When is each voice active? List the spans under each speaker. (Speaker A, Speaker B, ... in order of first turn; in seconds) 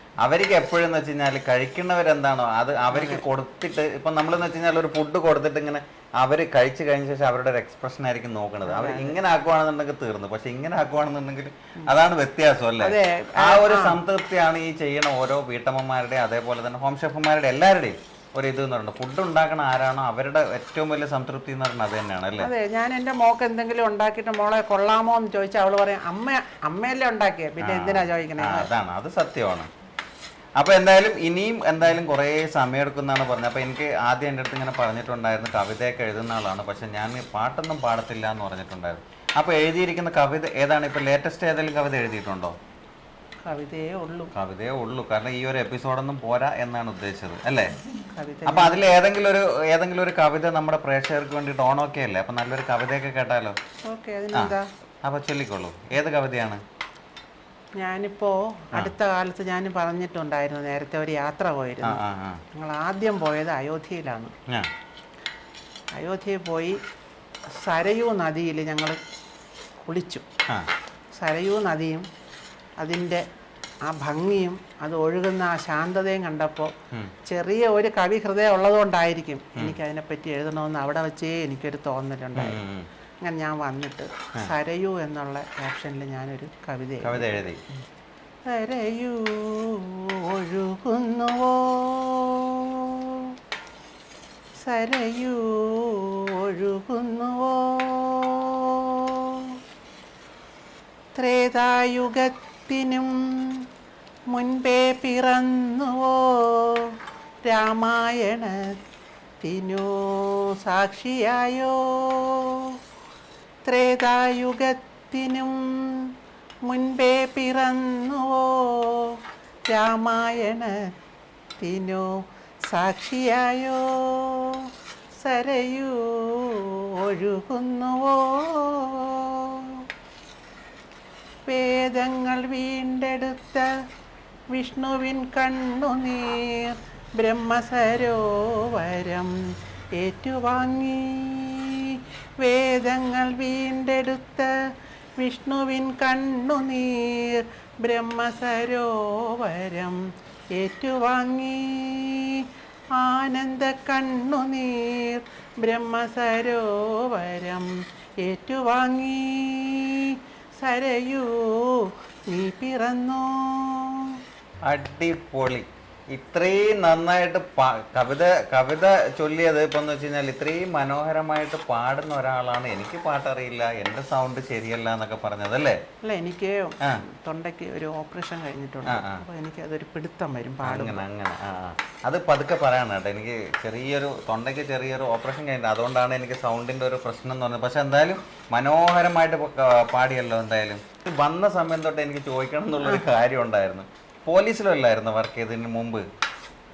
Speaker A: 0.2-22.5, 27.6-29.7, 30.6-42.6, 44.3-47.8, 48.5-53.6, 54.3-56.6, 61.8-62.4, 82.4-82.9, 87.0-87.6, 164.7-175.8, 178.8-179.2, 180.6-196.1
Speaker B: 2.9-3.2, 8.7-9.2, 12.8-14.0, 22.4-28.7, 43.4-44.3, 48.1-48.8, 53.9-54.7, 57.8-62.0, 62.5-64.3, 66.0-66.8, 67.5-69.0, 69.8-70.3, 71.2-72.1, 72.8-73.2, 73.8-76.7, 77.3-82.6, 83.2-87.4, 88.5-93.3, 94.6-99.5, 101.2-103.6, 104.3-106.9, 107.5-108.7, 109.4-112.7, 113.7-116.1, 116.7-119.2, 119.7-120.8, 121.6-122.1, 122.7-124.6, 125.2-129.8, 131.5-133.7, 134.5-139.4, 140.0-144.6, 145.2-164.2, 176.0-181.0